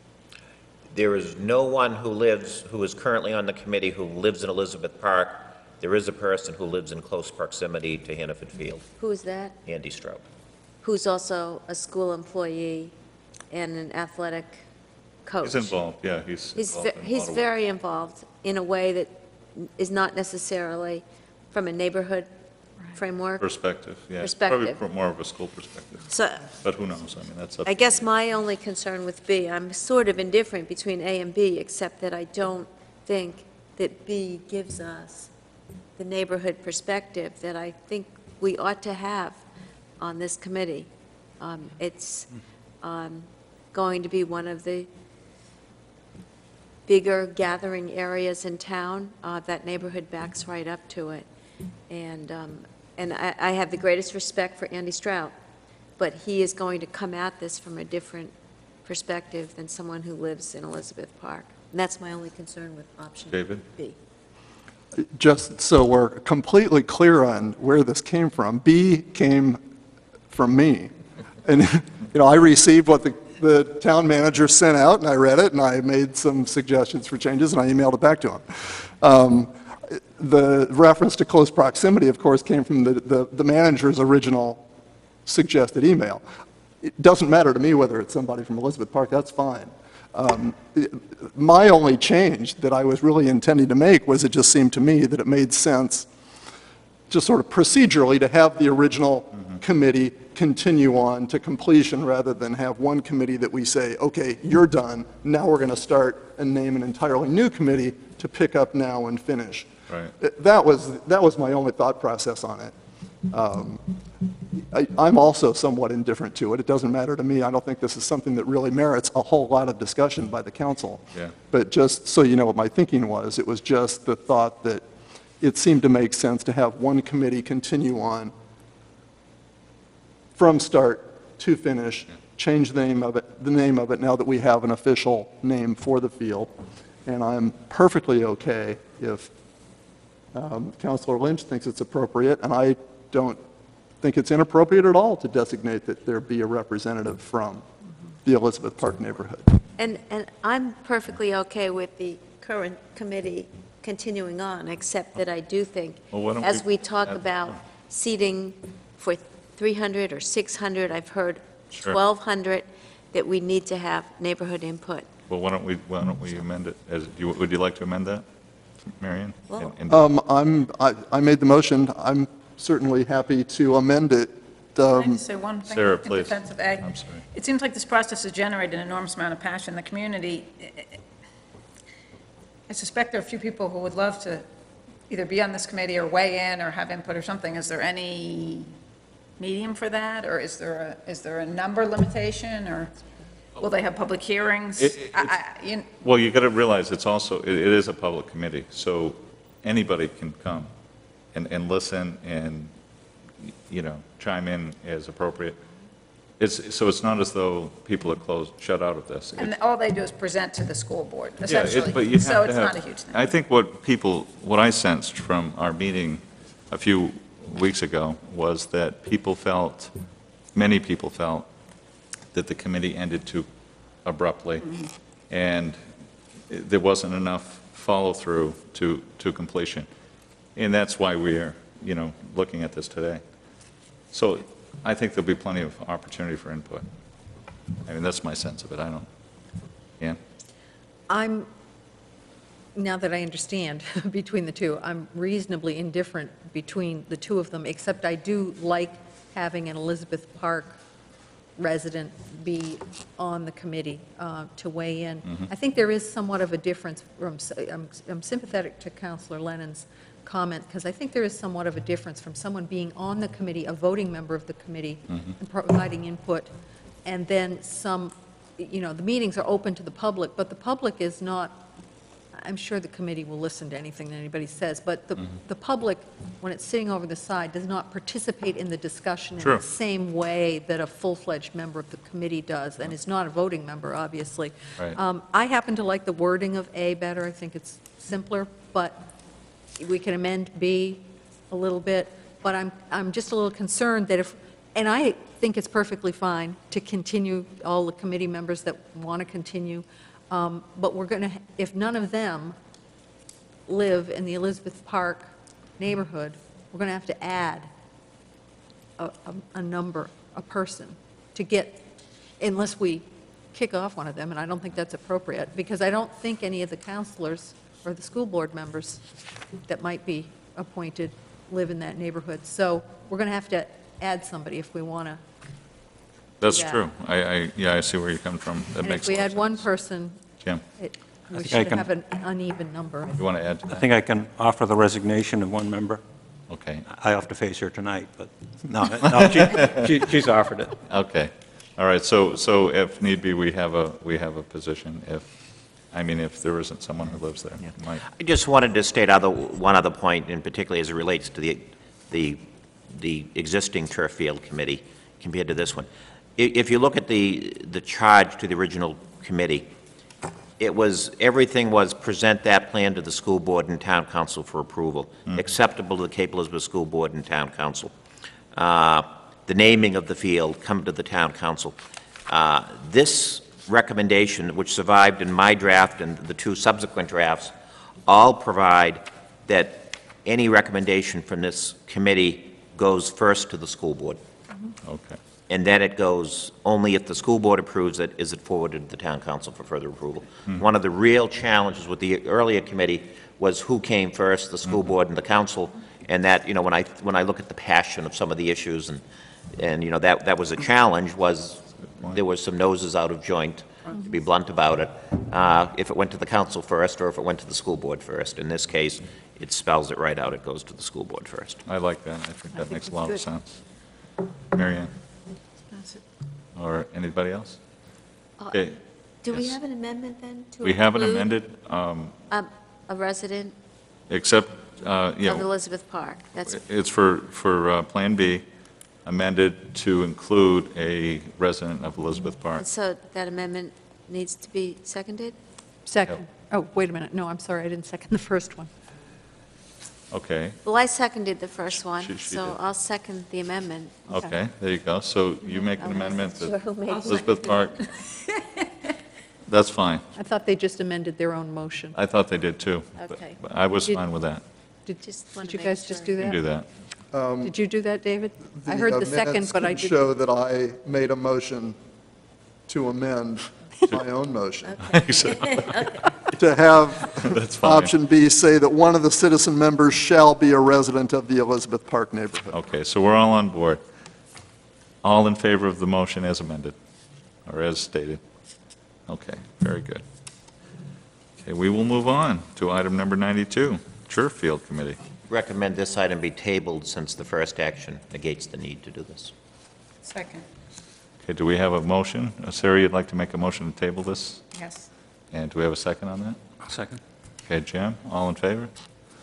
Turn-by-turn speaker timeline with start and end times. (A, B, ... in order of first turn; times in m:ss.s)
0:00.9-0:08.9 A
0:09.0-0:09.6 B
0:09.6-0:10.2 A
0:10.8-0:12.9 B
0:13.5-0:14.6 B
0:15.2-0:15.7 B
0:15.4-0:17.4 C
0:16.6-0:22.3 B
0:22.9-0:23.4 B
0:23.4-0:26.1 C
0:24.2-0:24.8 B
0:26.1-0:26.5 B
0:26.6-0:27.8 C
0:27.6-0:35.3 B
0:36.0-0:39.4 B
0:40.0-0:40.9 B
0:41.4-0:42.3 B
0:42.8-0:44.9 B
0:46.9-0:51.2 B
0:51.9-0:55.3 B
0:56.0-1:04.0 B
1:03.3-1:03.6 C
1:04.9-1:09.6 D
1:10.3-1:10.9 D
1:11.4-1:24.6 D
1:25.2-1:26.2 D
1:26.8-1:36.1 D
1:37.1-1:52.7 D
1:53.3-1:53.8 D
1:54.6-2:04.8 D
2:05.4-2:08.3 D
2:10.4-2:19.3 D
2:20.3-2:23.4 D
2:24.0-2:27.6 D
2:28.2-2:29.6 D
2:29.8-2:45.1 B
2:36.1-2:37.6 C
2:45.3-2:48.2 C
2:48.8-2:50.0 C
2:49.5-2:49.8 B
2:49.9-2:55.2 D
2:54.9-3:01.0 E
2:55.7-2:57.2 C
3:02.7-3:04.5 E
3:05.1-3:08.7 E
3:09.4-3:13.0 E
3:13.6-3:15.9 E
3:14.8-3:15.3 C
3:16.0-3:20.7 C
3:21.3-3:22.7 C
3:23.4-3:25.6 C
3:26.4-3:29.5 C
3:29.4-3:33.2 E
3:31.4-3:39.9 C
3:40.5-3:41.5 C
3:42.3-3:43.5 C
3:44.0-3:45.8 C
3:46.5-3:49.9 C
3:50.5-3:53.2 C
3:54.1-3:56.9 C
3:57.8-3:59.1 C
4:01.1-4:01.5 F
4:02.7-4:10.8 F
4:11.6-4:26.5 F
4:27.0-4:31.6 F
4:32.3-4:49.0 F
4:49.8-5:02.6 F
5:03.7-5:07.7 F
5:09.0-5:11.8 F
5:12.4-5:19.0 F
5:19.7-5:25.2 F
5:26.4-5:29.6 C
5:26.4-5:26.8 F
5:28.8-5:30.2 F
5:30.8-5:33.2 F
5:31.4-5:31.8 G
5:33.2-5:33.8 C
5:33.7-5:36.0 G
5:36.5-5:36.8 C
5:36.8-5:40.8 G
5:39.2-5:39.9 C
5:40.9-5:45.3 C
5:45.9-5:48.0 C
5:48.0-5:59.7 A
6:00.6-6:07.9 A
6:08.5-6:11.8 A
6:12.3-6:17.5 A
6:18.1-6:24.2 A
6:24.8-6:25.2 C
6:25.5-6:51.6 A
6:51.6-6:53.6 C
6:54.5-6:54.9 C
6:55.7-6:56.0 E
6:56.5-6:57.6 C
6:58.4-7:01.3 B
6:58.5-6:58.8 C
6:59.3-6:59.6 C
7:00.6-7:02.1 C
7:02.3-7:03.5 B
7:04.1-7:05.4 C
7:05.2-7:06.6 B
7:06.4-7:08.4 C
7:09.0-7:12.6 C
7:12.6-7:15.4 B
7:15.8-7:18.7 F
7:20.1-7:20.6 C
7:20.6-7:24.1 B
7:22.0-7:22.5 C
7:24.1-7:27.8 C
7:25.6-7:27.9 B
7:29.5-7:30.0 C
7:30.1-7:32.0 F
7:31.9-7:34.4 C
7:33.0-7:33.4 B
7:34.8-7:36.4 F
7:35.0-7:36.2 B
7:36.2-7:36.7 C
7:37.1-7:37.5 D
7:37.4-7:40.0 F
7:38.6-7:41.8 D
7:42.7-7:45.0 D
7:44.8-7:45.9 C
7:45.2-7:46.0 B
7:46.3-7:52.5 D
7:47.2-7:47.9 C
7:52.5-7:53.8 C
7:55.0-7:56.8 C
7:57.4-7:58.2 C
7:59.1-8:00.0 C
8:01.4-8:05.0 C
8:05.3-8:09.3 A
8:10.0-8:10.4 E
8:11.2-8:14.4 C
8:14.5-8:14.9 E
8:15.3-8:16.4 C
8:16.6-8:17.0 G
8:17.4-8:18.7 C